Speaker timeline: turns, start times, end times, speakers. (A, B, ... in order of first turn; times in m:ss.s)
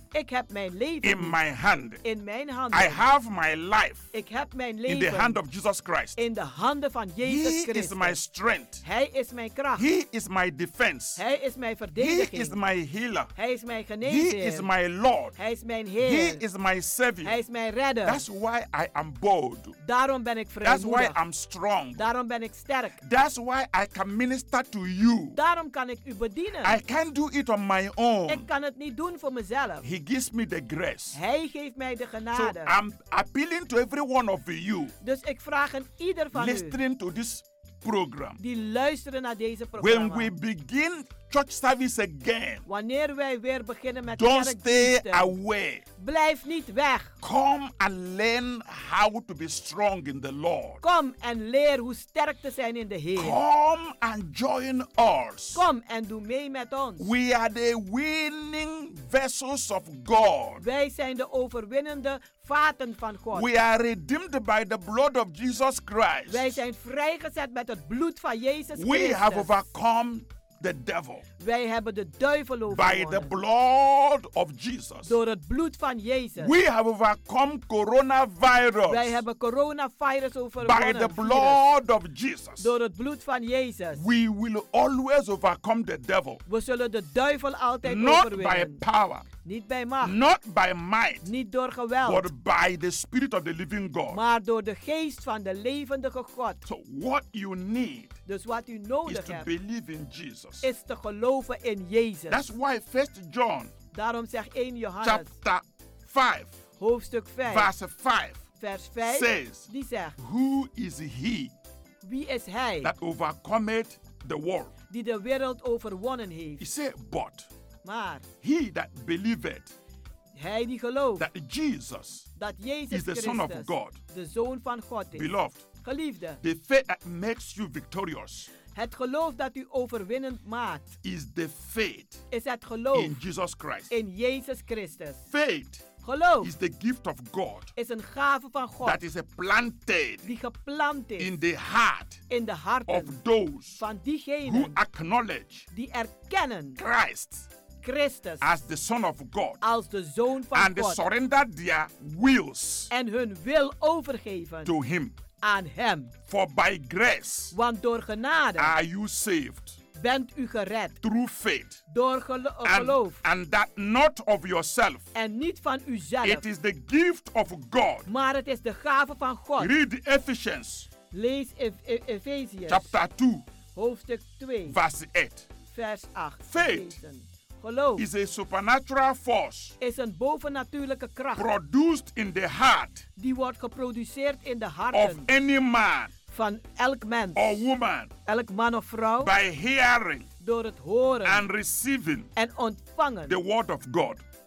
0:00.1-0:01.4 A
0:01.0-0:02.0 B
0:02.0-0:03.0 A
0:02.7-0:04.1 B
0:04.1-0:05.4 A
0:04.9-0:06.2 B
0:06.2-0:08.2 A
0:07.2-0:08.8 B
0:08.8-0:09.8 A
0:09.8-0:11.2 B
0:11.2-0:12.6 A
0:12.0-0:13.3 B
0:13.4-0:14.7 A
0:14.0-0:15.4 B
0:15.4-0:16.4 A
0:16.0-0:17.4 B
0:17.2-0:18.2 A
0:18.0-0:19.8 B
0:19.8-0:21.2 A
0:20.6-0:22.0 B
0:22.0-0:23.0 A
0:23.0-0:25.4 B
0:25.4-0:26.8 A
0:26.6-0:28.5 B
0:28.3-0:29.8 A
0:29.8-0:31.2 B
0:31.1-0:32.7 A
0:32.4-0:34.9 B
0:35.0-0:36.8 A
0:36.3-0:38.4 B
0:38.4-0:40.3 A
0:39.8-0:42.6 B
0:42.7-0:45.4 A
0:44.1-0:45.8 B
0:46.0-0:47.1 A
0:47.2-0:50.8 B
0:50.8-0:53.4 A
0:53.2-0:55.6 B
0:55.5-0:57.1 A
0:57.0-1:00.6 B
1:00.6-1:03.5 A
1:03.3-1:06.6 B
1:06.3-1:09.5 A
1:08.8-1:11.2 B
1:11.4-1:13.3 A
1:12.7-1:15.1 B
1:15.0-1:16.5 A
1:16.4-1:19.2 B
1:18.9-1:21.6 A
1:20.6-1:22.7 B
1:22.6-1:24.0 A
1:24.0-1:26.4 B
1:26.5-1:28.8 A
1:27.8-1:29.3 B
1:29.4-1:30.2 A
1:30.0-1:31.3 B
1:31.2-1:32.3 A
1:32.0-1:34.2 B
1:34.1-1:36.6 A
1:36.6-1:38.2 B
1:38.3-1:39.5 A
1:39.1-1:40.7 B
1:40.6-1:42.4 A
1:42.3-1:43.7 B
1:43.9-1:45.3 A
1:45.0-1:46.5 B
1:46.8-1:47.7 A
1:47.5-1:48.4 B
1:48.6-1:50.2 A
1:49.0-1:51.5 B
1:52.0-1:52.9 A
1:52.8-1:54.7 B
1:54.9-1:56.6 A
1:56.6-1:57.5 B
1:57.8-1:58.3 A
1:58.4-1:59.7 B
2:00.4-2:01.2 A
2:01.2-2:02.3 B
2:02.4-2:05.3 A
2:02.9-2:04.0 B
2:05.2-2:05.7 B
2:05.8-2:06.4 A
2:06.4-2:08.5 B
2:08.7-2:11.0 A
2:11.0-2:12.2 B
2:12.3-2:13.2 A
2:12.9-2:13.9 B
2:13.9-2:15.2 A
2:15.3-2:15.9 B
2:16.0-2:16.5 A
2:16.4-2:17.7 B
2:17.8-2:19.0 A
2:18.8-2:20.3 B
2:20.2-2:21.3 A
2:21.2-2:22.2 B
2:22.3-2:23.2 A
2:22.9-2:23.8 B
2:23.8-2:24.8 A
2:24.4-2:25.7 B
2:25.7-2:26.8 A
2:26.8-2:27.5 B
2:27.8-2:28.4 A
2:28.4-2:29.6 B
2:29.6-2:31.0 A
2:30.5-2:32.9 B
2:32.9-2:34.7 A
2:34.7-2:35.2 B
2:35.4-2:36.1 A
2:36.3-2:37.6 B
2:37.5-2:38.7 A
2:38.6-2:39.8 B
2:40.0-2:41.0 A
2:41.0-2:41.8 B
2:41.9-2:43.2 A
2:42.6-2:45.1 B
2:45.1-2:46.4 A
2:46.2-2:48.1 B
2:48.1-2:49.7 A
2:49.6-2:50.9 B
2:51.1-2:52.9 A
2:52.7-2:53.4 B
2:53.8-2:54.8 A
2:54.7-2:55.5 B
2:55.7-2:58.0 A
2:56.5-2:57.0 B
2:58.0-2:59.8 B
2:59.8-3:01.4 A
3:01.4-3:03.1 B
3:03.2-3:05.3 A
3:04.9-3:06.1 B
3:06.3-3:07.6 A
3:07.4-3:08.1 B
3:08.3-3:09.3 A
3:09.2-3:10.3 B
3:10.4-3:11.4 A
3:11.2-3:12.3 B
3:12.4-3:13.4 A
3:13.3-3:14.2 B